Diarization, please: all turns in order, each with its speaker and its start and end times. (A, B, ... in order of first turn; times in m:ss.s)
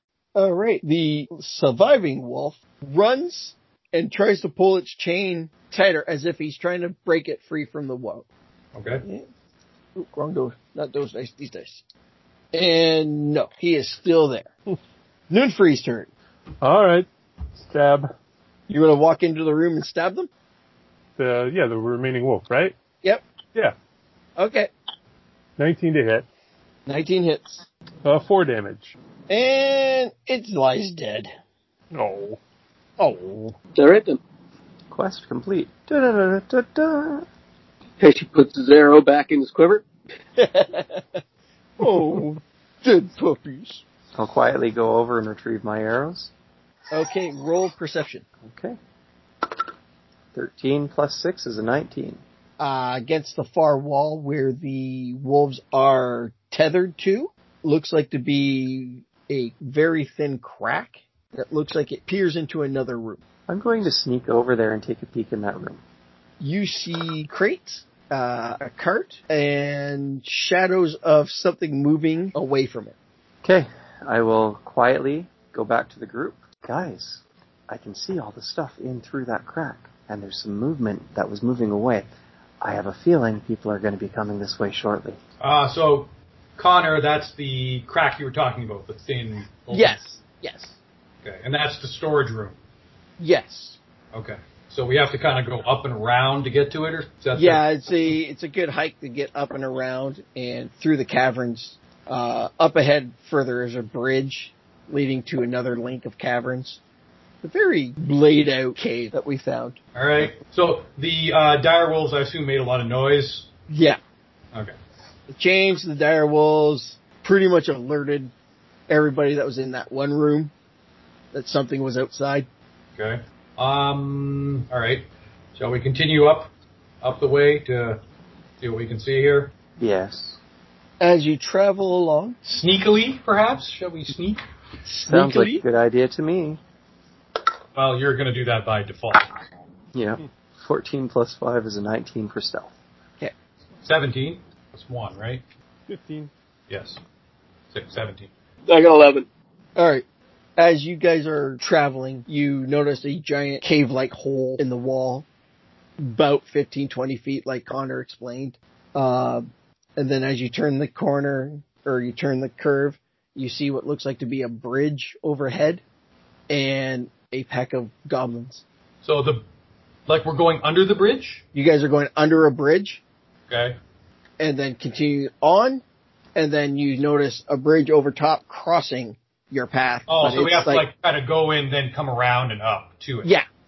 0:00.4-0:08.2 A
0:08.7-0:09.0 B
0:10.0-0:11.8 A
0:12.5-0:14.5 A
0:15.3-0:16.1 A
0:16.6-0:18.1 C
0:18.7-0:20.3 A
0:21.2-0:22.7 C
0:24.4-0:24.7 A
0:25.6-0:26.2 C
0:26.9-0:27.7 A
0:28.0-0:28.9 C
0:29.3-0:31.3 A
0:31.9-0:32.4 C
0:33.0-0:33.6 A
0:33.8-0:34.2 D
0:34.9-0:37.2 E
0:38.0-0:39.8 D
0:40.4-0:41.2 A
0:41.8-0:43.8 A
0:44.2-0:46.3 E
0:46.9-0:48.2 A
0:48.4-0:48.8 E
0:50.3-0:52.2 E
0:52.6-1:03.2 A
1:03.5-1:05.8 E
1:06.4-1:13.0 A
1:13.4-1:22.1 E
1:22.6-1:25.2 E
1:25.4-1:30.0 B
1:29.7-1:30.8 A
1:31.2-1:32.6 B
1:33.2-1:33.8 A
1:34.1-1:37.6 B
1:37.3-1:46.8 A
1:47.4-1:49.8 A
1:49.9-1:53.5 B
1:53.7-1:54.0 A
1:55.3-1:58.3 A
1:58.9-2:00.5 A
2:01.3-2:02.5 A
2:03.0-2:06.5 B
2:07.0-2:08.0 B
2:08.6-2:09.5 B
2:09.8-2:10.4 E
2:11.0-2:12.4 A
2:12.4-2:14.4 B
2:14.9-2:15.6 A
2:15.0-2:16.6 E
2:17.7-2:19.4 B
2:19.9-2:22.7 E
2:23.8-2:25.4 B
2:25.9-2:26.3 C
2:26.7-2:27.0 B
2:27.7-2:28.3 B
2:28.7-2:29.3 D
2:29.8-2:30.0 A
2:30.6-2:35.2 A
2:36.0-2:45.8 A
2:46.5-2:48.6 A
2:49.0-2:49.4 B
2:50.1-2:51.4 B
2:51.5-2:53.0 A
2:53.5-2:53.8 B
2:54.4-2:55.8 A
2:56.4-3:00.8 A
3:00.1-3:03.3 B